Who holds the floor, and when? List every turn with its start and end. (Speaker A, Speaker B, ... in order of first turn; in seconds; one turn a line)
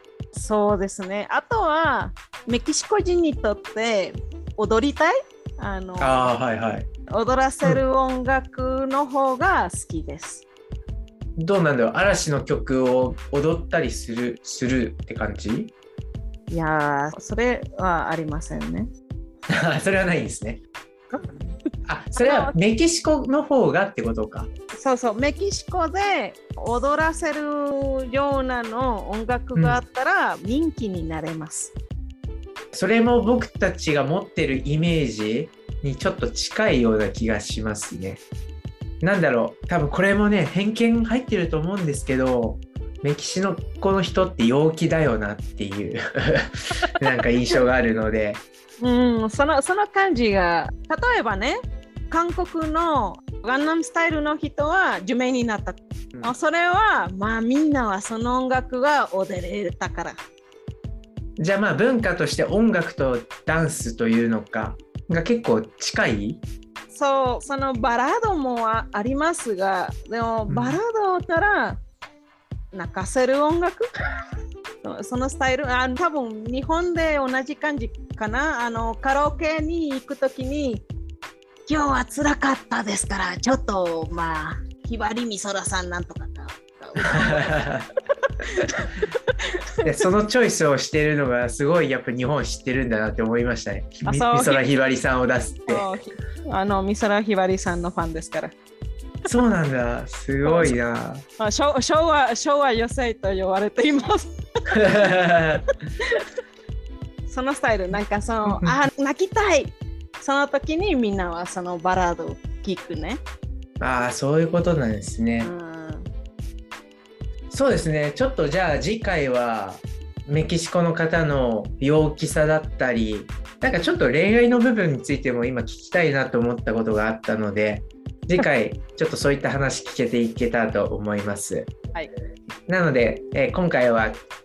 Speaker A: 0.3-6.3
Speaker B: 6.0-6.9
Speaker A: 7.1-10.4
Speaker B: 11.4-15.7
Speaker A: 16.5-18.9
Speaker B: 19.5-20.6
Speaker A: 21.1-21.4
Speaker B: 21.9-24.5
Speaker A: 22.1-22.5
Speaker A: 24.8-31.7
Speaker B: 29.5-29.8
Speaker B: 32.7-38.2
Speaker B: 39.0-48.4
Speaker A: 48.8-51.6
Speaker A: 52.1-60.2
Speaker B: 61.4-66.4
Speaker A: 66.9-71.8
Speaker B: 70.5-70.8
Speaker A: 72.7-73.8
Speaker A: 74.8-80.8
Speaker A: 81.7-87.6
Speaker B: 87.1-87.8
Speaker A: 88.6-89.1
Speaker B: 89.8-95.9
Speaker A: 94.0-94.6
Speaker A: 95.7-98.5
Speaker B: 99.2-101.2
Speaker A: 100.4-100.7
Speaker A: 101.4-104.3
Speaker B: 104.7-105.6
Speaker A: 107.3-113.2
Speaker B: 108.5-108.7
Speaker B: 113.8-115.5
Speaker A: 115.4-116.1
Speaker B: 117.5-131.7
Speaker B: 132.7-134.2